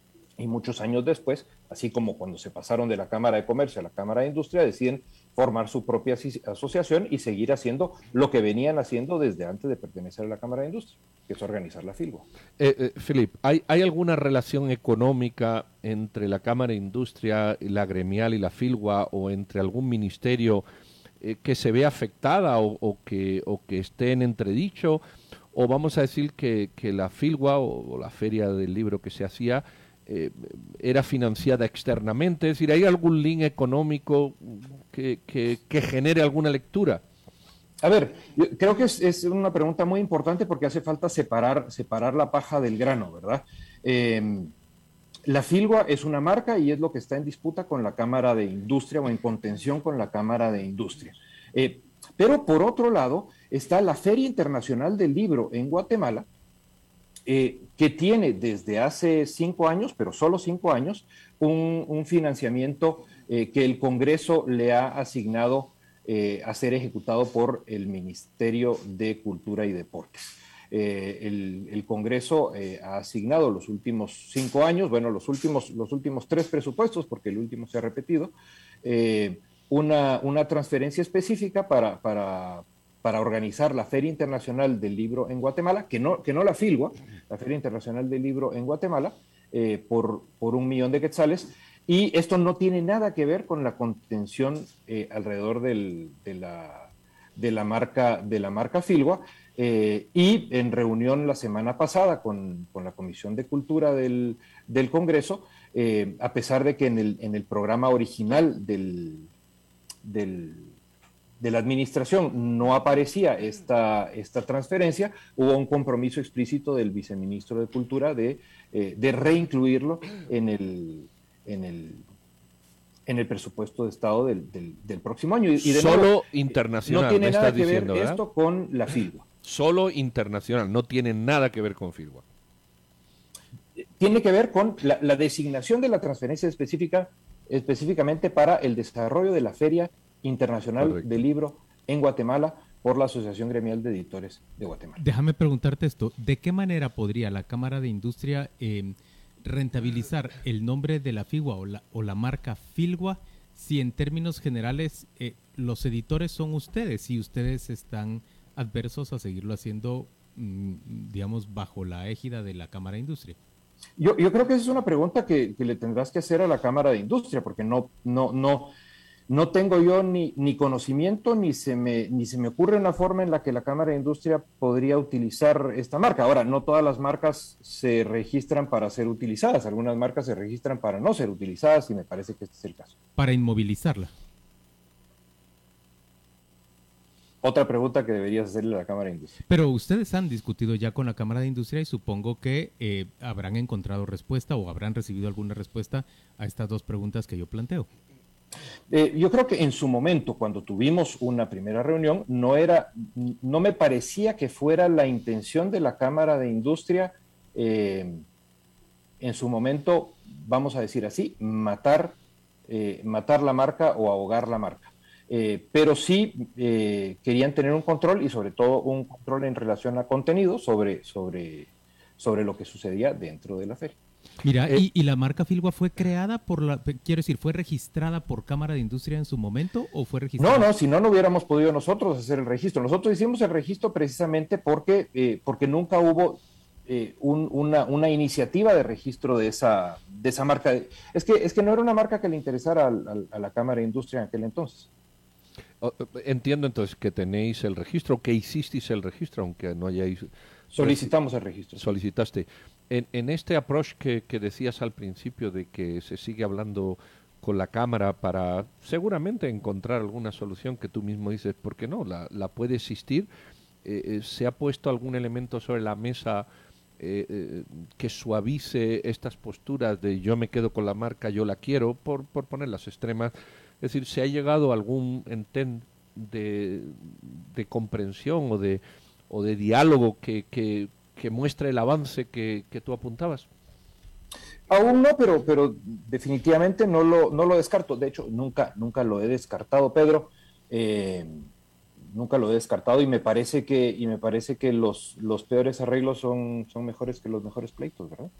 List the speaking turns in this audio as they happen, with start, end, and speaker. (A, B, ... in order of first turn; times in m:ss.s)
0:00.4-0:12.3 A
0:12.6-0:20.6 B
0:21.2-0:25.0 B
0:25.5-0:37.0 B
0:37.8-0:44.5 A
0:45.2-0:56.3 A
0:57.3-1:49.3 A
1:50.0-1:50.7 A
1:51.4-2:02.0 A
2:03.1-2:09.2 A
2:05.6-2:08.2 B
2:09.4-2:12.2 B
2:14.0-2:25.0 A
2:20.8-2:21.2 B
2:25.0-2:43.4 C
2:44.0-2:48.7 A
2:49.3-3:02.9 A
3:03.2-3:04.1 C
3:07.4-3:09.4 A
3:09.5-3:17.9 C
3:18.9-3:28.2 A
3:29.2-3:32.2 A
3:32.7-3:44.0 A
3:44.4-3:50.7 C
3:50.4-4:04.9 A
4:05.8-4:11.1 B
4:10.7-4:11.8 A
4:11.8-4:23.3 B
4:23.8-4:26.4 B
4:27.0-4:43.5 B
4:44.7-4:51.4 A
4:52.1-4:58.3 A